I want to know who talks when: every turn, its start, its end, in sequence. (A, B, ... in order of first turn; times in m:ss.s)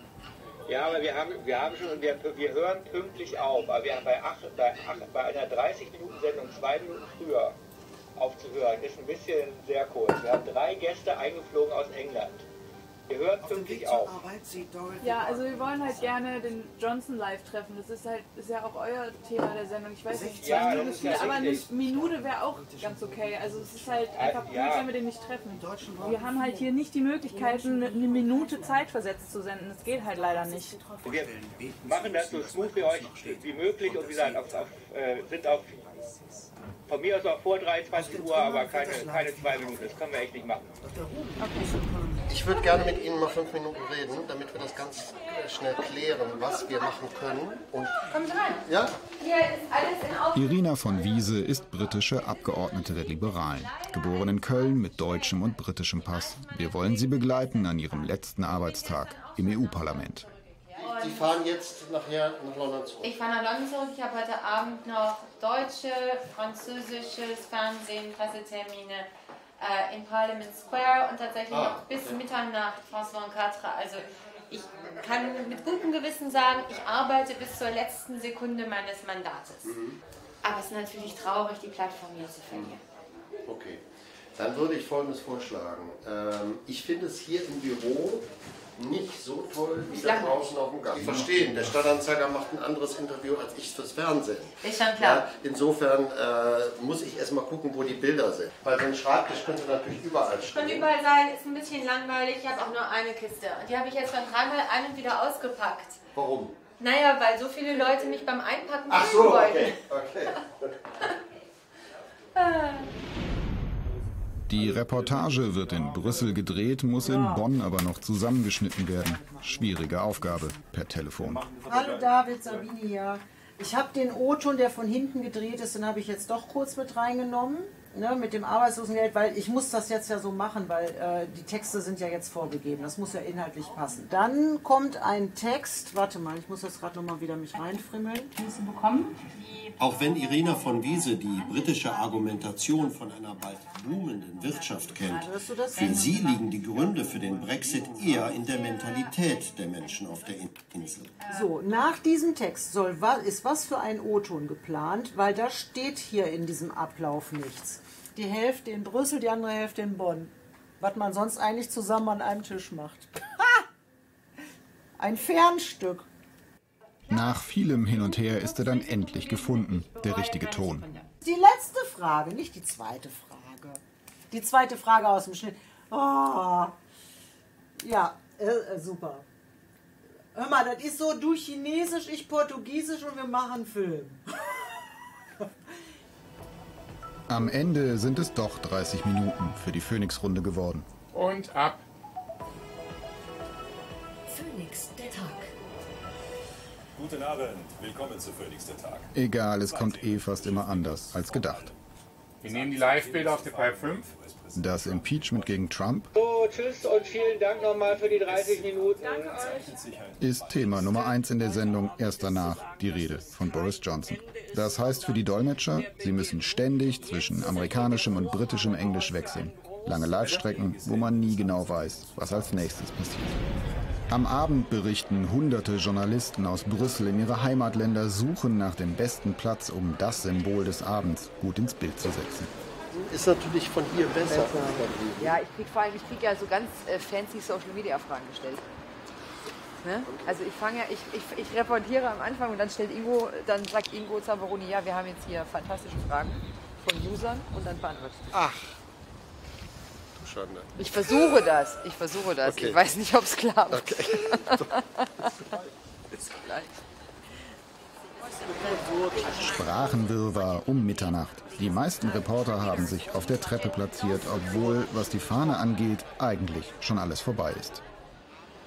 0:00.7-0:07.6 A
0:08.2-0:12.4 A
0:13.1-0:14.2 A
0:15.0-0:30.8 B
0:20.4-0:21.7 A
0:24.1-0:24.8 A
0:31.0-0:31.3 A
0:31.8-0:36.0 A
0:36.9-0:40.7 A
0:42.3-0:48.0 C
0:48.1-0:48.6 D
0:48.6-0:48.9 C
0:49.2-0:50.2 D
0:50.3-1:00.3 E
0:53.4-0:55.5 D
0:56.0-1:00.0 D
1:00.8-1:03.2 C
1:00.8-1:01.3 D
1:03.0-1:19.7 D
1:11.5-1:12.2 C
1:19.6-1:20.0 C
1:20.4-1:22.8 D
1:22.5-1:22.7 C
1:23.4-1:23.8 C
1:24.4-1:40.9 C
1:29.9-1:30.4 D
1:34.6-1:35.2 D
1:40.5-1:46.0 D
1:46.1-1:46.6 C
1:46.8-1:49.9 D
1:48.9-1:50.4 C
1:52.3-1:52.9 D
1:54.5-2:01.4 E
1:57.0-1:57.4 F
1:59.0-1:59.3 F
2:01.6-2:18.4 F
2:19.8-2:31.3 C
2:25.1-2:26.2 F
2:31.2-2:43.6 F
2:45.0-2:46.0 F
2:47.1-2:50.9 E
2:51.2-2:53.8 F
2:54.3-2:56.7 F
2:57.8-2:59.2 F
3:00.3-3:04.2 F
3:07.3-3:10.8 E
3:11.1-3:11.8 G
3:17.0-3:19.1 H
3:19.1-3:21.7 E
3:19.7-3:21.8 H
3:22.4-3:25.6 H
3:22.4-3:24.1 G
3:24.5-3:26.1 E
3:26.1-3:29.4 A
3:28.3-3:30.9 H
3:30.2-3:43.4 E
3:44.1-3:52.5 E
3:52.9-3:55.4 C
3:55.2-3:58.6 I
3:59.8-4:08.2 I
4:08.3-4:08.8 C
4:10.2-4:11.3 C
4:10.8-4:14.4 I
4:12.4-4:12.8 C
4:13.7-4:14.7 C
4:16.2-4:16.7 I
4:19.3-4:27.8 E